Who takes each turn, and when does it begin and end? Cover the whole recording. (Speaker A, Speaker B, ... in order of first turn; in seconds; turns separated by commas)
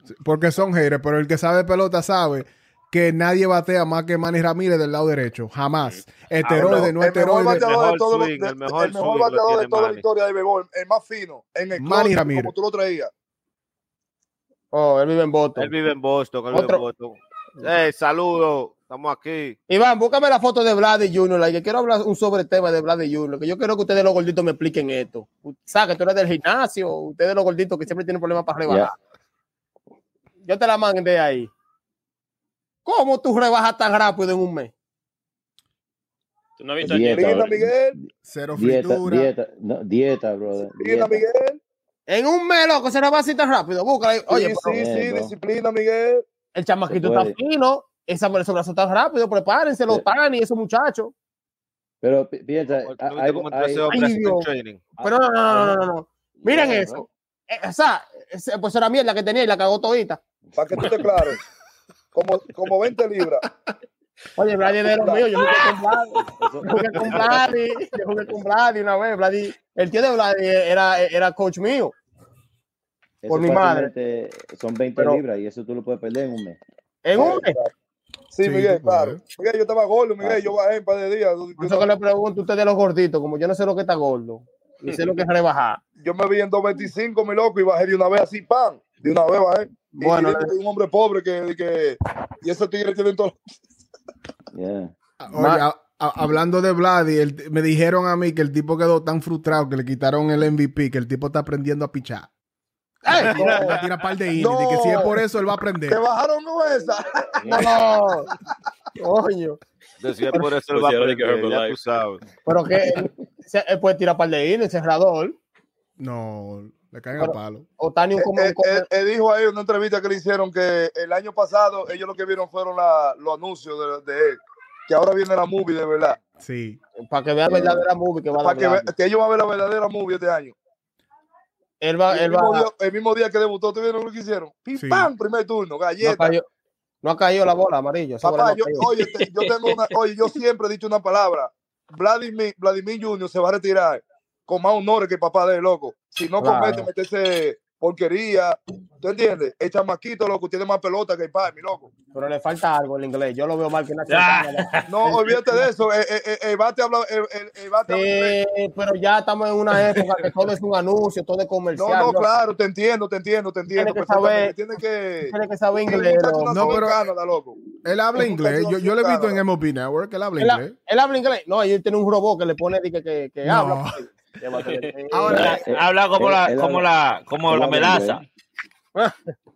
Speaker A: 0.2-7.7, Speaker B: 6.4-10.0, Speaker C: 6.5-13.1, Speaker A: 11.8-12.5, Speaker D: 14.7-15.7, Speaker B: 15.6-19.6, Speaker D: 16.5-16.8, Speaker D: 19.7-28.9, Speaker E: 28.7-28.9, Speaker D: 30.4-31.5, Speaker D: 32.8-34.7, Speaker F: 36.6-37.6, Speaker E: 36.8-37.7, Speaker C: 37.1-38.0, Speaker A: 38.2-39.3, Speaker E: 38.5-41.2, Speaker C: 40.7-41.6, Speaker D: 42.1-44.8, Speaker C: 44.3-46.2, Speaker E: 44.7-45.3, Speaker D: 46.5-51.1, Speaker E: 46.9-47.4, Speaker E: 52.0-54.0, Speaker B: 52.8-54.9, Speaker D: 53.9-54.5, Speaker E: 55.0-55.8, Speaker D: 55.0-60.2, Speaker E: 56.4-57.0, Speaker C: 60.5-61.4, Speaker C: 62.1-63.5, Speaker D: 64.3-71.9, Speaker C: 64.9-65.3, Speaker E: 66.1-67.5, Speaker E: 73.2-76.6, Speaker D: 73.3-73.9, Speaker D: 77.0-77.6, Speaker C: 77.1-77.7, Speaker C: 78.3-81.9, Speaker A: 78.4-79.2, Speaker E: 80.2-80.5, Speaker D: 81.6-85.8, Speaker C: 86.0-93.3, Speaker D: 89.9-90.5, Speaker E: 94.5-94.9, Speaker A: 95.2-102.3, Speaker D: 95.3-95.6, Speaker D: 103.0-103.8, Speaker A: 103.1-106.0, Speaker C: 104.3-105.1, Speaker D: 104.9-105.1, Speaker C: 105.9-107.6, Speaker D: 107.4-108.3, Speaker D: 109.0-109.6, Speaker B: 110.0-112.2, Speaker F: 110.7-111.8, Speaker D: 112.4-115.3, Speaker A: 116.0-117.7, Speaker D: 117.2-118.8, Speaker C: 118.2-126.2, Speaker A: 126.4-126.8, Speaker D: 127.1-128.9, Speaker E: 127.5-127.8, Speaker C: 128.4-130.6, Speaker D: 131.8-132.7, Speaker C: 132.1-136.3, Speaker A: 134.8-135.1, Speaker D: 136.0-136.4, Speaker D: 137.0-138.9, Speaker C: 138.2-151.9, Speaker D: 146.4-146.9, Speaker D: 152.1-155.7, Speaker G: 154.1-154.8, Speaker C: 154.9-158.3, Speaker D: 157.9-162.3, Speaker C: 161.8-167.6, Speaker D: 163.7-164.6, Speaker D: 165.3-166.8, Speaker A: 166.5-167.0, Speaker A: 167.8-170.7, Speaker C: 168.2-169.4, Speaker D: 170.4-175.5, Speaker A: 173.4-174.0, Speaker F: 174.6-174.9, Speaker A: 175.1-175.6, Speaker E: 175.3-176.9, Speaker G: 175.3-178.2, Speaker E: 177.5-178.2, Speaker D: 178.9-179.3